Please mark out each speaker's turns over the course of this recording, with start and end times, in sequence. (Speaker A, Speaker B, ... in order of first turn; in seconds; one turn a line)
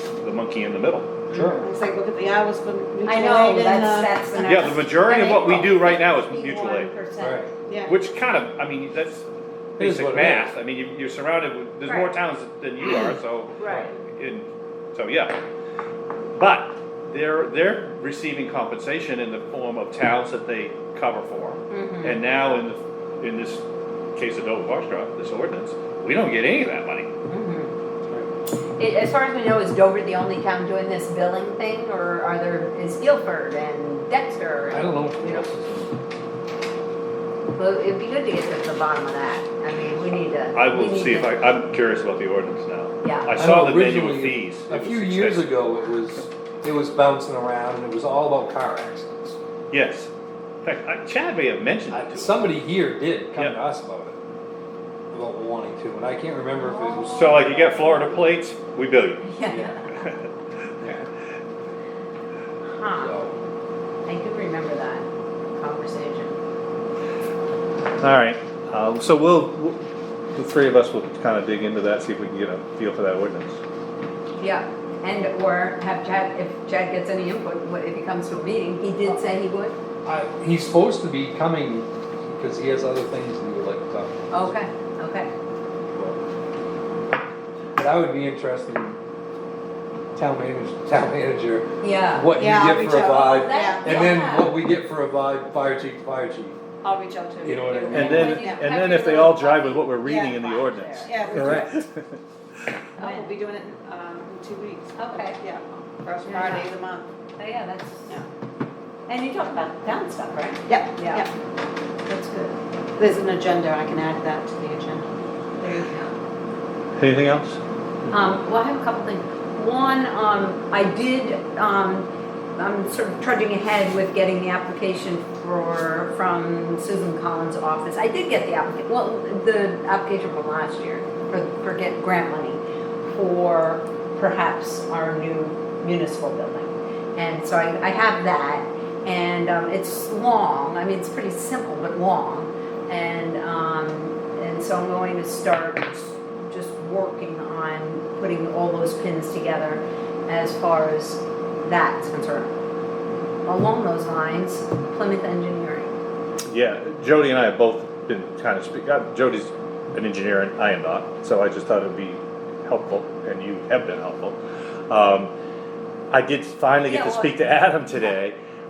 Speaker A: 0.2-1.1
Speaker B: 1.3-1.6
Speaker C: 1.3-1.7
Speaker D: 1.6-4.8
Speaker C: 3.0-7.5
Speaker A: 4.4-6.9
Speaker B: 7.2-7.5
Speaker D: 7.7-7.9
Speaker A: 7.8-15.4
Speaker B: 9.8-10.5
Speaker C: 11.9-12.1
Speaker C: 13.6-13.9
Speaker A: 16.4-23.6
Speaker C: 21.7-22.2
Speaker A: 24.2-27.1
Speaker C: 27.3-27.7
Speaker C: 28.8-35.5
Speaker B: 34.7-35.9
Speaker C: 37.5-41.3
Speaker A: 40.5-45.7
Speaker C: 43.0-43.3
Speaker B: 43.3-49.4
Speaker A: 49.7-50.1
Speaker A: 50.6-52.5
Speaker B: 51.9-54.2
Speaker B: 55.1-57.5
Speaker C: 56.5-58.2
Speaker A: 57.1-59.3
Speaker C: 59.3-60.0
Speaker B: 59.5-59.9
Speaker B: 60.8-61.1
Speaker C: 62.7-63.2
Speaker B: 63.0-63.4
Speaker C: 64.1-66.4
Speaker A: 68.0-69.8
Speaker A: 70.3-73.6
Speaker C: 74.4-79.8
Speaker B: 80.0-84.2
Speaker C: 84.3-85.3
Speaker B: 87.8-89.0
Speaker B: 90.2-96.6
Speaker C: 91.8-94.6
Speaker D: 92.3-94.1
Speaker D: 96.8-98.7
Speaker B: 97.4-98.5
Speaker C: 97.9-101.7
Speaker A: 97.9-102.2
Speaker D: 100.0-100.4
Speaker D: 101.0-101.7
Speaker B: 101.3-101.7
Speaker C: 103.0-103.3
Speaker D: 103.0-107.1
Speaker C: 105.0-105.4
Speaker C: 106.3-106.7
Speaker C: 107.4-108.2
Speaker C: 109.1-111.3
Speaker D: 110.7-111.3
Speaker C: 112.1-112.5
Speaker D: 113.0-115.1
Speaker D: 115.6-116.0
Speaker C: 115.8-116.0
Speaker A: 117.0-117.6
Speaker C: 118.1-152.5
Speaker C: 153.5-155.9
Speaker A: 156.5-164.4
Speaker A: 164.9-165.3
Speaker A: 166.1-168.4
Speaker C: 166.8-167.5